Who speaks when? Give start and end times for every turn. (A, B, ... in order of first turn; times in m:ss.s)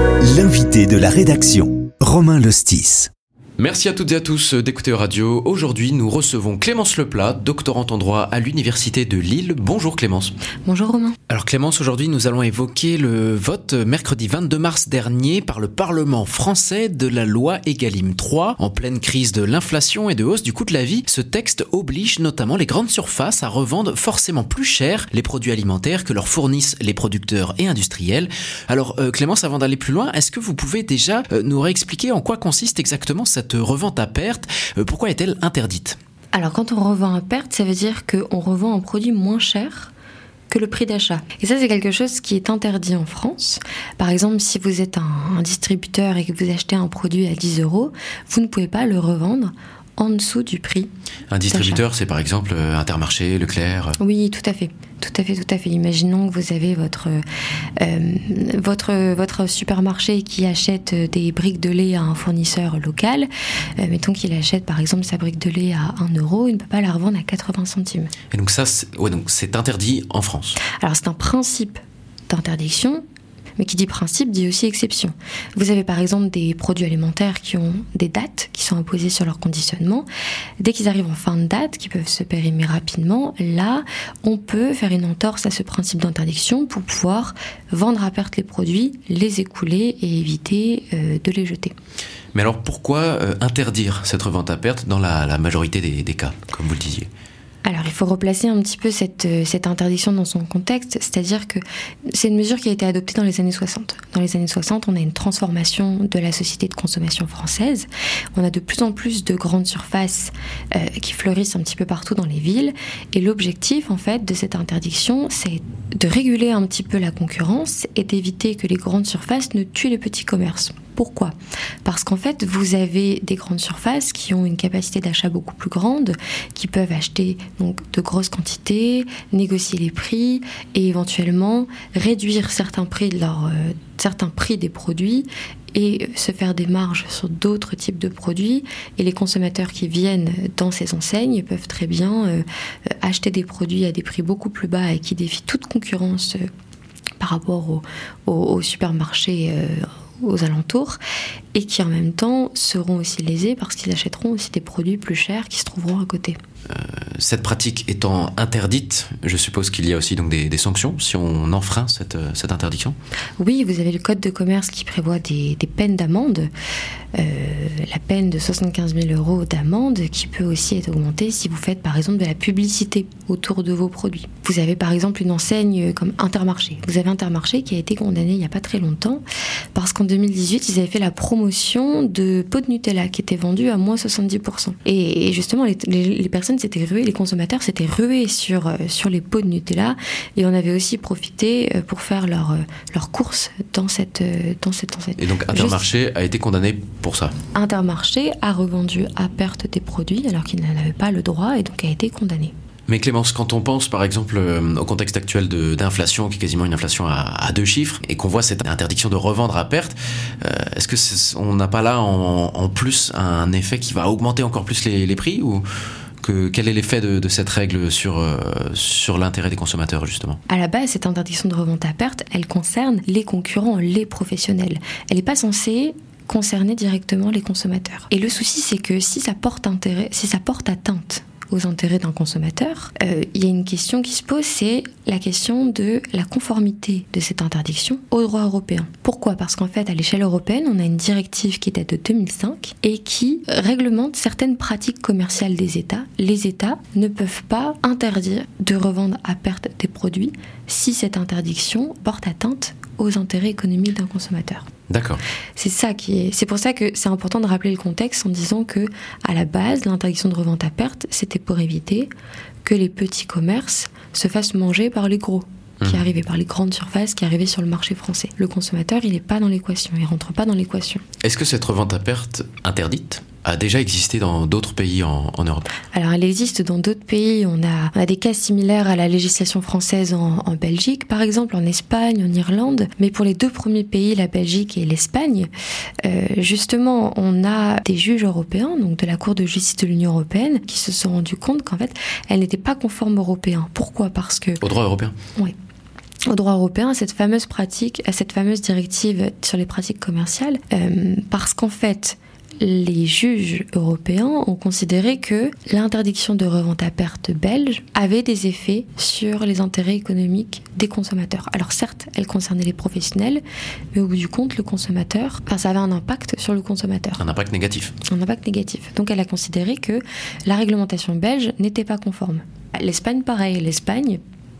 0:00.2-0:03.1 A
0:03.6-0:10.3 B
0:10.6-0:11.2 C
0:11.3-0:36.0 B
0:36.3-0:39.9 C
0:40.5-0:50.9 C
0:51.3-0:54.0 B
0:51.5-0:51.8 C
0:54.0-0:57.2 C
0:57.8-1:08.1 C
1:08.3-1:10.6 B
1:10.8-1:13.0 C
1:13.6-1:20.0 C
1:20.6-1:31.7 C
1:32.3-1:37.1 B
1:37.6-2:01.3 C
2:01.8-2:22.4 C
2:23.0-2:26.4 C
2:27.2-2:31.0 C
2:31.5-2:36.4 C
2:36.7-2:42.9 B
2:43.4-2:46.5 C
2:47.1-2:59.2 C
2:59.7-3:15.8 C
3:15.2-3:17.3 B
3:17.5-3:22.5 C
3:22.9-3:35.6 B
3:36.2-3:40.4 B
3:40.5-4:14.6 C
4:14.9-4:15.2 B
4:15.6-4:22.1 C
4:22.6-4:31.0 C
4:31.2-4:35.7 B
4:35.9-4:45.5 C
4:46.0-4:54.6 C
4:54.6-4:55.1 B
4:56.3-5:13.4 C
5:13.9-5:17.2 C
5:17.2-5:17.9 B
5:18.1-5:24.2 C